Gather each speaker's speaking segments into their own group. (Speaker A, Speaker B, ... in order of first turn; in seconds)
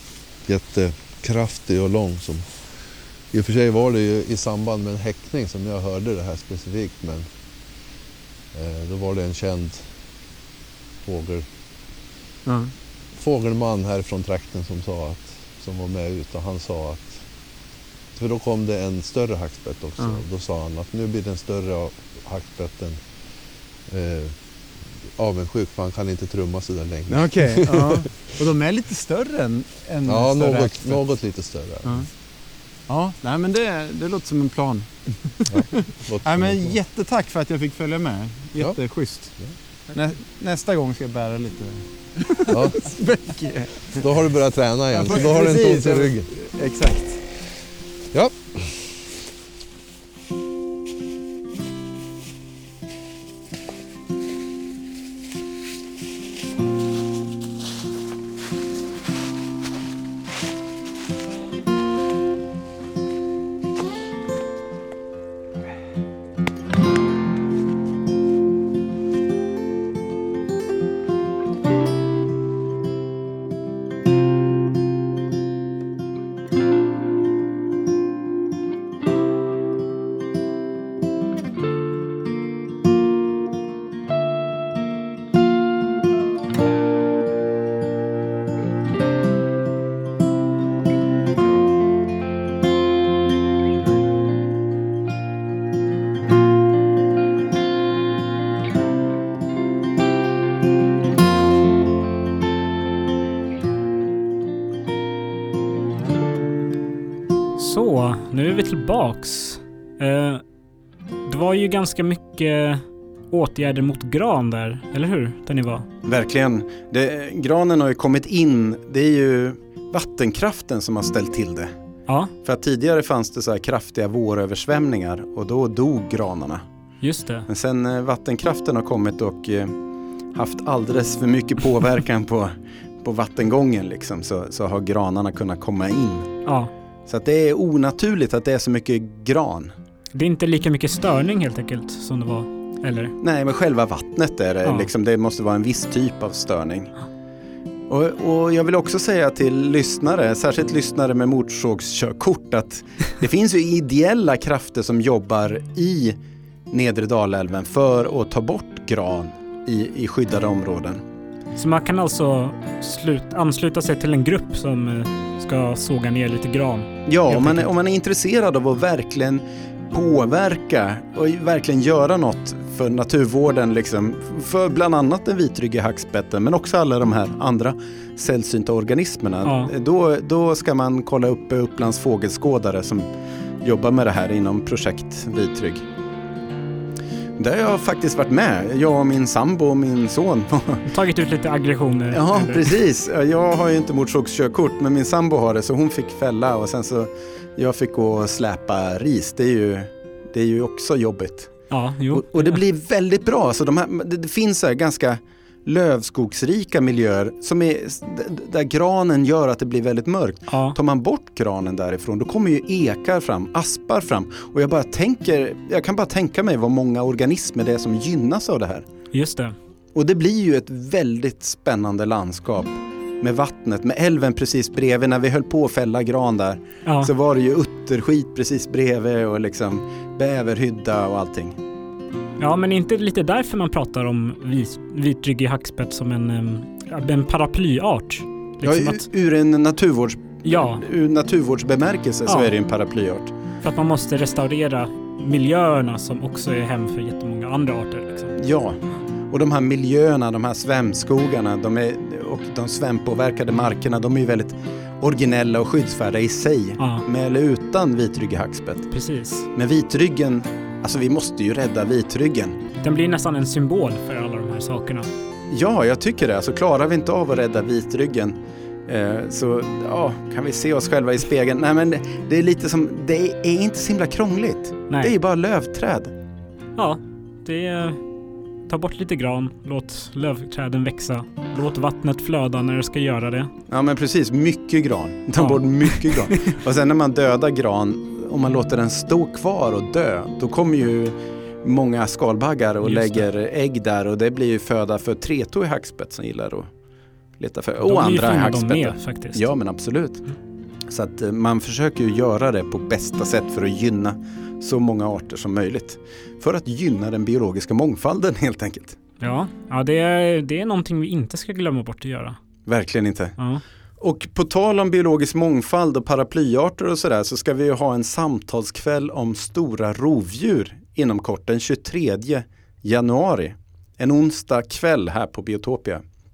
Speaker A: 0.5-2.5, 3.3-7.3, 8.5-9.9, 11.0-11.4, 13.1-17.2, 18.1-23.0, 23.9-28.0, 30.1-32.0, 35.5-36.8, 42.5-42.8, 44.0-46.3, 48.1-49.0
Speaker B: 12.4-12.7, 27.1-31.0, 31.8-32.1, 32.9-35.6, 36.2-39.4, 39.9-44.1, 44.9-47.2, 116.0-121.7, 122.4-126.6, 127.5-129.7, 130.3-136.3, 137.1-139.7, 143.2-146.9, 147.9-156.2, 156.7-161.0, 167.1-183.1, 183.6-185.9, 187.4-190.8, 192.1-201.6, 202.1-218.9, 219.9-231.6, 238.6-243.3, 248.4-258.9, 259.5-262.6, 265.5-276.1, 283.7-296.7, 297.4-300.2, 300.9-309.0, 312.6-313.4, 314.0-326.0
Speaker C: 107.6-110.4, 111.3-115.9, 122.1-122.3, 127.0-127.5, 136.4-136.7, 140.1-143.1, 144.6-144.9, 161.6-167.7, 179.4-179.7, 190.9-192.8, 201.7-202.6, 210.5-210.8, 219.1-219.6, 226.8-227.1, 232.4-239.1, 240.4-240.8, 242.3-242.5, 243.6-248.3, 256.8-257.1, 258.9-259.5, 262.8-265.1, 274.9-275.1, 276.8-278.0, 278.7-283.5, 285.4-286.3, 292.8-293.3, 297.8-299.5, 309.2-312.4, 313.4-313.6